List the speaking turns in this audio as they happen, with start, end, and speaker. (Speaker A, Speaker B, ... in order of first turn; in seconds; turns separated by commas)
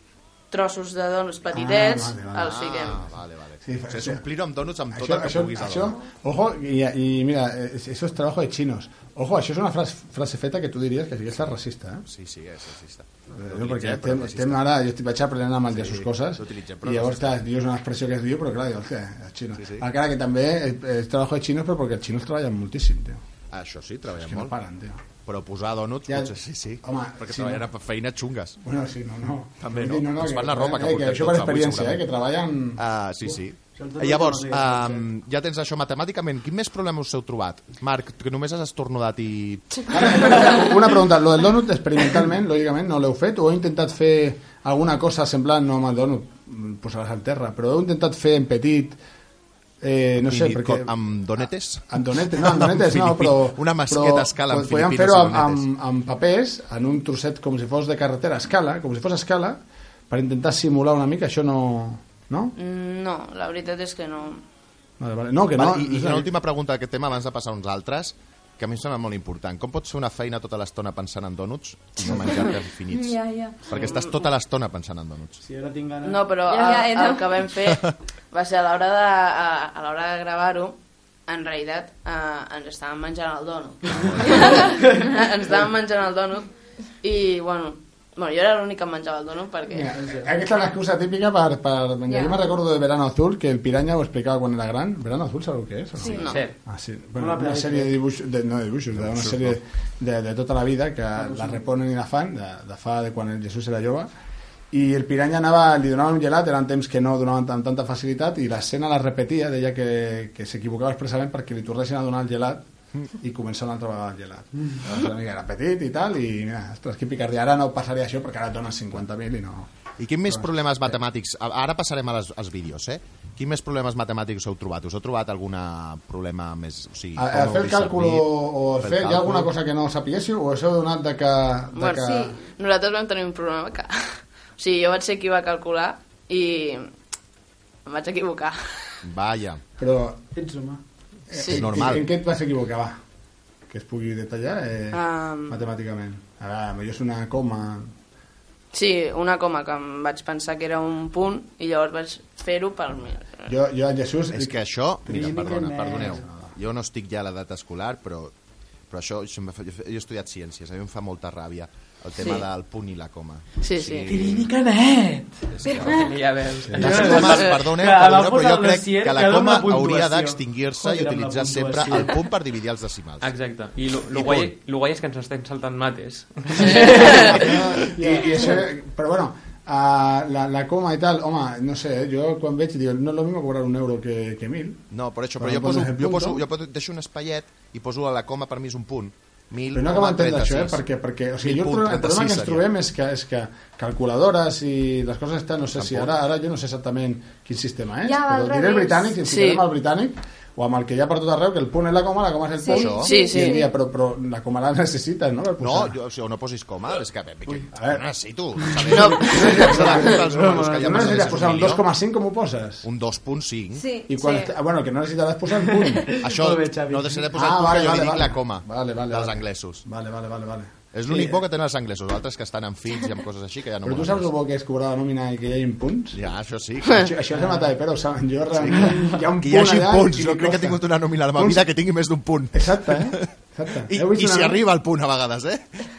Speaker A: 0.5-3.1, Speaker B: 1.5-2.6, Speaker C: 2.5-6.0, Speaker B: 3.6-4.2, Speaker B: 4.9-12.1, Speaker C: 12.1-14.6, Speaker B: 13.3-23.2, Speaker C: 15.7-17.3, Speaker C: 19.6-19.9, Speaker C: 23.5-24.5, Speaker B: 24.2-25.0, Speaker C: 25.3-28.6, Speaker B: 26.1-27.6, Speaker B: 28.6-32.8, Speaker C: 29.6-32.0, Speaker C: 32.8-40.3, Speaker D: 33.7-35.0, Speaker B: 39.9-49.0, Speaker B: 49.8-50.9, Speaker C: 50.2-55.6, Speaker B: 51.9-62.5, Speaker A: 62.6-64.4, Speaker B: 65.0-66.3, Speaker C: 65.6-75.4, Speaker E: 72.9-73.8, Speaker A: 73.7-74.2, Speaker D: 75.4-76.3, Speaker A: 76.0-86.5, Speaker E: 76.5-77.5, Speaker C: 83.9-84.7, Speaker D: 84.7-85.0, Speaker A: 87.0-90.0, Speaker B: 89.7-104.1, Speaker D: 90.0-90.3, Speaker E: 92.1-92.4, Speaker A: 96.1-96.4, Speaker F: 96.2-96.5, Speaker D: 97.2-97.9, Speaker C: 99.0-99.6, Speaker D: 101.2-101.6, Speaker B: 104.7-112.7, Speaker B: 113.2-119.7, Speaker C: 120.0-129.5, Speaker B: 120.2-120.9, Speaker B: 127.2-132.3, Speaker A: 131.7-136.9, Speaker E: 132.0-132.4, Speaker A: 137.9-139.0, Speaker C: 139.0-139.6, Speaker B: 139.8-140.2, Speaker D: 140.3-140.8, Speaker B: 141.3-143.0, Speaker C: 141.4-142.1, Speaker A: 141.4-141.7, Speaker B: 143.7-147.9, Speaker A: 144.9-145.6, Speaker A: 148.7-153.5, Speaker B: 153.5-156.5, Speaker C: 154.3-158.3, Speaker D: 155.1-156.3, Speaker C: 158.9-164.5, Speaker A: 162.2-162.5, Speaker A: 163.6-164.1, Speaker D: 164.1-165.5, Speaker C: 165.5-166.1, Speaker E: 165.7-166.1, Speaker F: 165.7-167.5, Speaker B: 166.7-167.0, Speaker C: 166.7-173.3, Speaker D: 166.8-172.3, Speaker F: 173.2-177.3, Speaker C: 174.1-174.5, Speaker D: 176.6-177.4, Speaker B: 177.0-184.9, Speaker D: 177.9-178.4, Speaker C: 184.9-190.8, Speaker B: 185.4-186.4, Speaker B: 189.7-205.9, Speaker C: 191.4-192.7, Speaker C: 195.8-196.1, Speaker E: 198.0-199.2, Speaker A: 199.2-199.6, Speaker E: 202.6-203.7, Speaker C: 202.7-203.1, Speaker A: 203.0-203.6, Speaker C: 205.6-211.8, Speaker B: 207.7-208.0, Speaker D: 208.7-211.4, Speaker B: 209.0-212.9, Speaker C: 212.8-213.9, Speaker E: 213.7-214.5, Speaker B: 214.1-216.1, Speaker D: 215.8-217.3, Speaker C: 216.2-219.8, Speaker B: 217.3-221.4, Speaker C: 220.9-224.3, Speaker B: 223.8-226.2, Speaker C: 226.1-227.1, Speaker B: 226.9-230.8, Speaker C: 228.5-233.3, Speaker B: 231.3-231.6, Speaker B: 232.5-234.6, Speaker C: 233.9-235.7